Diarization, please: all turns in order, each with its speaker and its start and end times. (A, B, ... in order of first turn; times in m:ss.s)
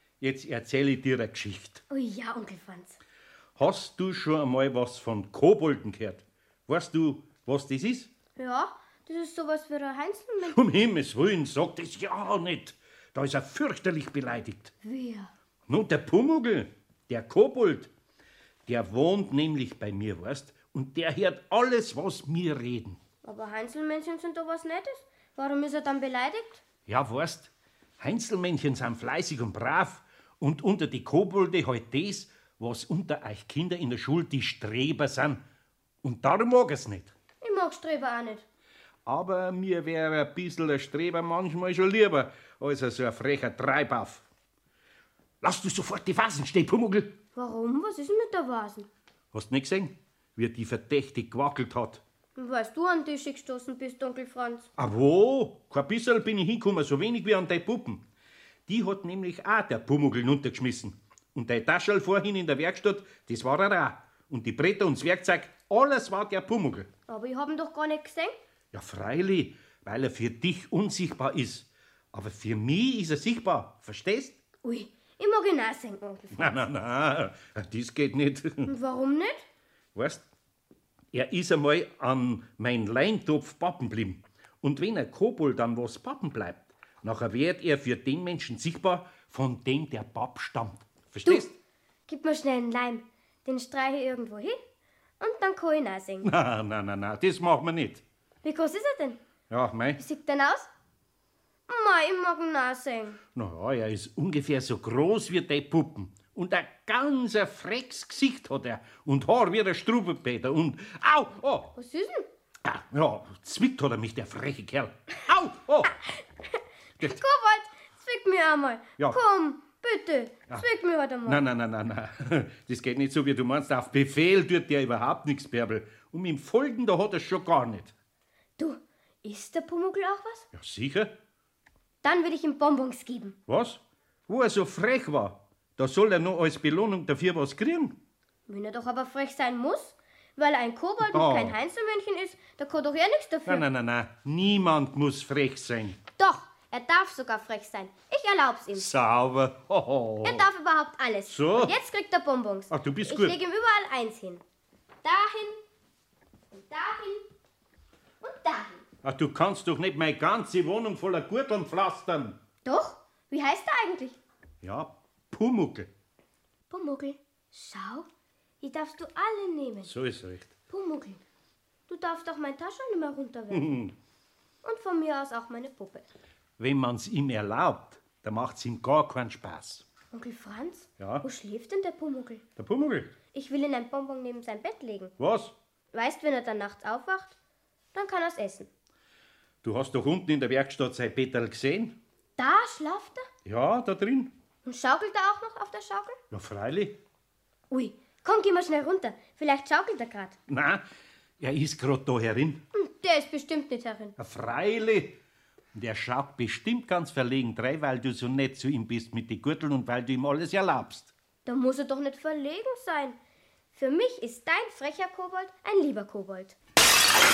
0:00.2-0:01.8 A
0:01.9-0:03.0 B
0:03.6-0:08.1 A
0:08.4-0:10.6 B
0:10.5-0:14.7 A
0:14.8-0:15.3 B
0:15.7-0:17.9 A
0:18.7-0:23.0 A
0:23.2-0:26.6 B
0:26.9-0:35.4 A
0:36.0-0:37.1 A
0:37.4-0:38.4 B
0:39.1-0:44.2 A
0:45.4-0:47.1 A
0:47.4-0:48.9 B
0:49.3-0:52.0 A
0:52.4-0:54.7 B
0:54.8-0:58.0 A
0:58.7-1:06.9 A
1:07.1-1:08.4 B
1:08.7-1:14.4 A
1:14.6-1:16.6 B
1:16.3-1:18.7 A
1:18.7-1:19.4 B
1:20.0-1:20.2 A
1:21.1-1:31.5 A
1:32.1-1:34.6 B
1:35.2-1:36.3 B
1:36.2-1:38.0 A
1:38.4-1:39.2 B
1:39.5-1:40.0 A
1:40.0-1:40.7 B
1:41.7-1:43.2 B
1:43.4-1:51.7 A
1:51.8-1:52.3 B
1:52.6-1:56.0 A
1:57.0-2:01.4 B
2:01.3-2:07.9 A
2:08.6-2:10.5 B
2:10.5-2:11.1 A
2:12.0-2:13.4 B
2:13.5-2:18.0 A
2:18.5-2:23.6 B
2:21.1-2:21.6 A
2:23.5-2:26.0 A
2:26.2-2:28.9 B
2:28.8-2:30.4 A
2:30.2-2:34.4 B
2:31.3-2:31.7 A
2:32.7-2:33.4 A
2:35.0-2:35.6 B
2:36.5-2:37.3 B
2:38.2-2:38.8 B
2:39.0-2:42.4 A
2:42.6-2:44.2 B
2:44.6-2:45.9 A
2:46.7-2:48.1 B
2:48.6-2:49.9 B
2:49.9-2:50.5 A
2:50.7-2:51.2 B
2:51.9-2:53.8 B
2:53.5-2:53.9 A
2:54.6-2:56.1 B
2:56.6-2:59.8 A
3:00.1-3:02.4 B
3:01.0-3:01.2 A
3:02.6-3:03.1 A
3:03.3-3:05.1 B
3:05.2-3:05.5 A
3:05.9-3:07.4 B
3:07.9-3:08.7 B
3:09.6-3:12.0 A
3:12.4-3:13.3 B
3:13.4-3:14.3 A
3:14.6-3:16.2 B
3:16.3-3:17.0 A
3:17.7-3:20.4 B
3:20.5-3:20.8 A
3:21.4-3:22.6 A
3:22.7-3:24.2 B
3:24.2-3:25.2 A
3:25.8-3:31.1 A
3:31.5-3:33.2 B
3:33.7-3:36.6 B